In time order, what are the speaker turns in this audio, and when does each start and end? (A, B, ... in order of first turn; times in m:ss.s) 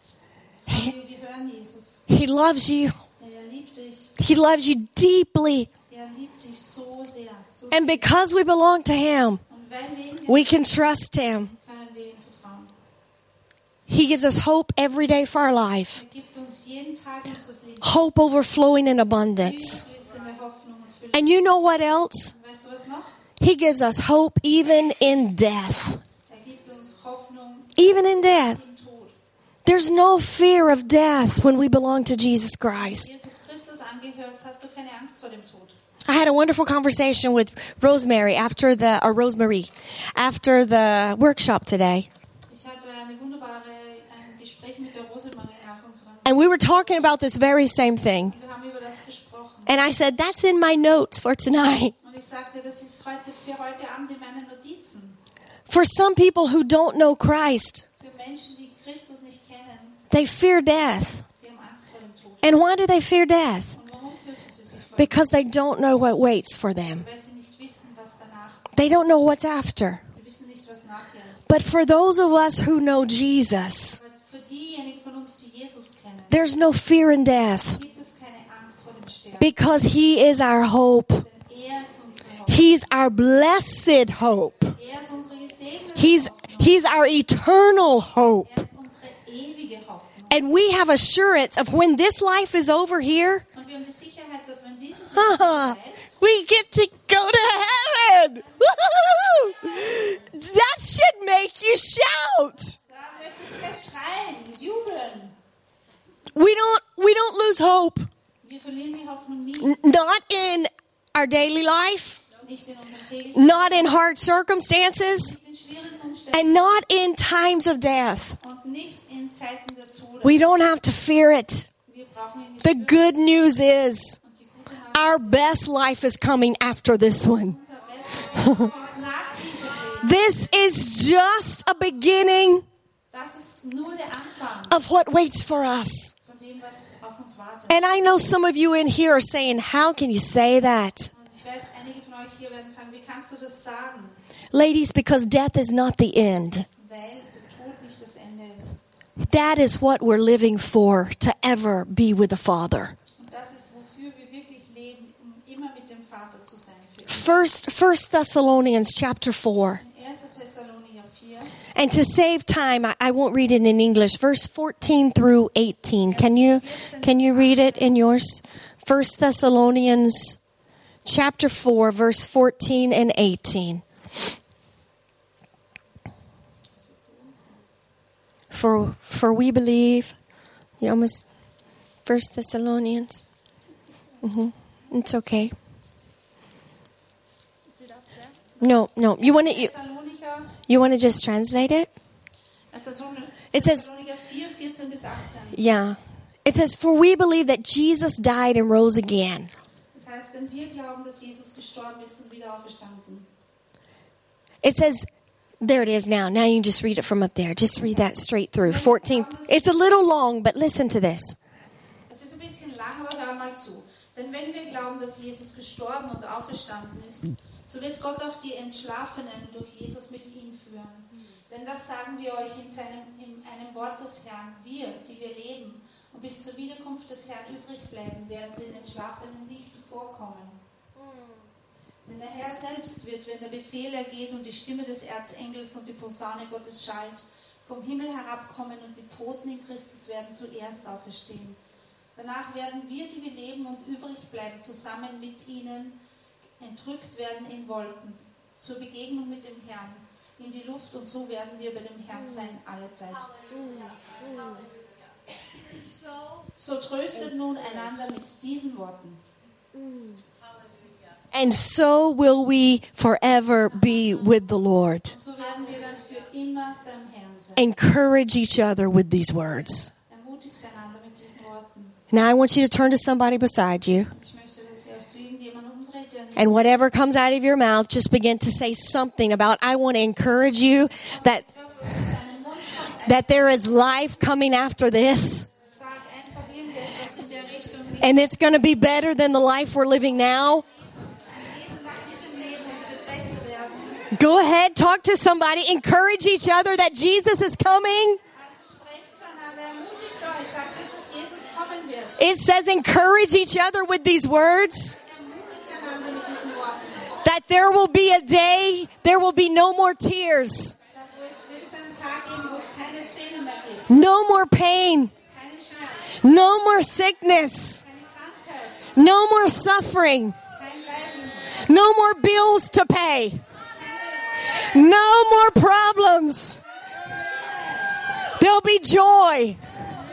0:00.7-0:02.1 A
0:02.1-0:03.0 B
0:03.2-0:04.2 A
0:04.2-0:05.7 B
0:05.9-0:08.1 A
0:07.7-0:09.4 B
0:09.5-0:10.6 A
0:10.3-0:11.6 B
0:11.6-0:12.7 A
0:13.9-0:16.0 B
0:15.9-0:18.0 A
0:17.8-0:19.8 B
0:19.4-0:21.6 A
0:21.1-0:22.3 B
0:22.3-0:23.2 A
0:23.4-0:26.0 B
0:26.3-0:29.2 A
0:27.8-0:28.6 B
0:29.6-0:33.1 B
0:32.9-0:35.8 A
0:36.1-0:42.1 B
0:42.5-0:47.7 A
0:46.2-0:48.4 B
0:48.2-0:49.8 A
0:49.7-0:51.9 B
0:52.0-0:55.2 A
0:55.7-0:57.8 B
0:58.0-1:00.0 A
1:00.1-1:01.2 B
1:01.4-1:02.6 A
1:02.4-1:03.7 B
1:03.7-1:05.3 A
1:05.0-1:07.1 B
1:07.0-1:08.7 A
1:08.7-1:10.0 B
1:10.1-1:11.5 A
1:11.5-1:14.0 B
1:13.9-1:16.5 A
1:16.3-1:17.8 B
1:17.7-1:19.5 A
1:19.4-1:21.2 B
1:21.2-1:22.7 A
1:22.5-1:24.8 B
1:24.8-1:26.8 A
1:26.0-1:28.5 B
1:28.4-1:30.4 A
1:30.3-1:33.4 B
1:33.5-1:36.2 A
1:35.1-1:42.8 B
1:38.4-1:40.2 A
1:42.8-1:45.4 A
1:46.3-1:48.1 B
1:48.4-1:49.8 A
1:49.6-1:52.2 B
1:52.4-1:54.0 A
1:53.3-1:55.4 B
1:55.1-1:56.6 A
1:56.3-1:58.4 B
1:58.4-2:00.4 A
2:00.2-2:01.7 B
2:01.9-2:03.1 A
2:02.6-2:04.2 B
2:04.2-2:05.6 A
2:04.9-2:07.6 B
2:07.5-2:10.2 A
2:08.4-2:08.7 B
2:10.0-2:12.6 B
2:13.1-2:14.8 A
2:14.7-2:16.1 B
2:16.2-2:17.8 A
2:17.7-2:21.1 B
2:21.1-2:24.2 A
2:24.5-2:26.7 B
2:26.8-2:28.8 A
2:29.2-2:33.0 B
2:33.2-2:37.4 A
2:37.1-2:39.8 B
2:39.8-2:41.6 A
2:41.8-2:50.4 B
2:46.1-2:47.9 A
2:51.0-2:53.8 B
2:56.8-2:57.5 A
2:58.5-3:00.2 B
3:00.8-3:01.2 B
3:02.1-3:03.2 B
3:04.2-3:05.5 B
3:07.7-3:10.5 A
3:08.6-3:09.7 B
3:10.7-3:11.9 B
3:12.7-3:15.7 A
3:13.5-3:13.8 B
3:15.5-3:19.5 B
3:19.9-3:23.3 A
3:24.6-3:25.1 B
3:25.6-3:31.4 B
3:28.6-3:29.7 A
3:32.1-3:50.6 A
3:51.0-3:51.4 B
3:52.1-4:01.6 A
4:02.2-4:06.0 A
4:06.6-4:13.6 A
4:13.5-4:14.7 B
4:16.5-4:19.2 A
4:19.8-4:20.2 B
4:21.3-4:25.2 B
4:25.1-4:27.6 A
4:27.6-4:29.9 B
4:30.1-4:32.0 A
4:32.1-4:34.1 B
4:34.1-4:36.7 A
4:36.4-4:41.4 B
4:41.1-4:43.4 A
4:43.0-4:45.5 B
4:45.6-4:48.3 A
4:48.0-4:50.6 B
4:51.0-4:54.1 A
4:54.1-4:58.2 B
4:58.3-5:02.3 A
5:02.2-5:05.0 B
5:05.0-5:07.2 A
5:07.2-5:10.8 B
5:10.9-5:13.9 A
5:13.9-5:15.1 B
5:15.3-5:16.2 A
5:16.2-5:17.8 B
5:17.8-5:19.0 A
5:19.0-5:20.4 B
5:20.5-5:21.6 A
5:21.6-5:23.4 B
5:23.7-5:24.9 A
5:24.5-5:26.6 B
5:26.6-5:28.1 A
5:28.4-5:29.6 B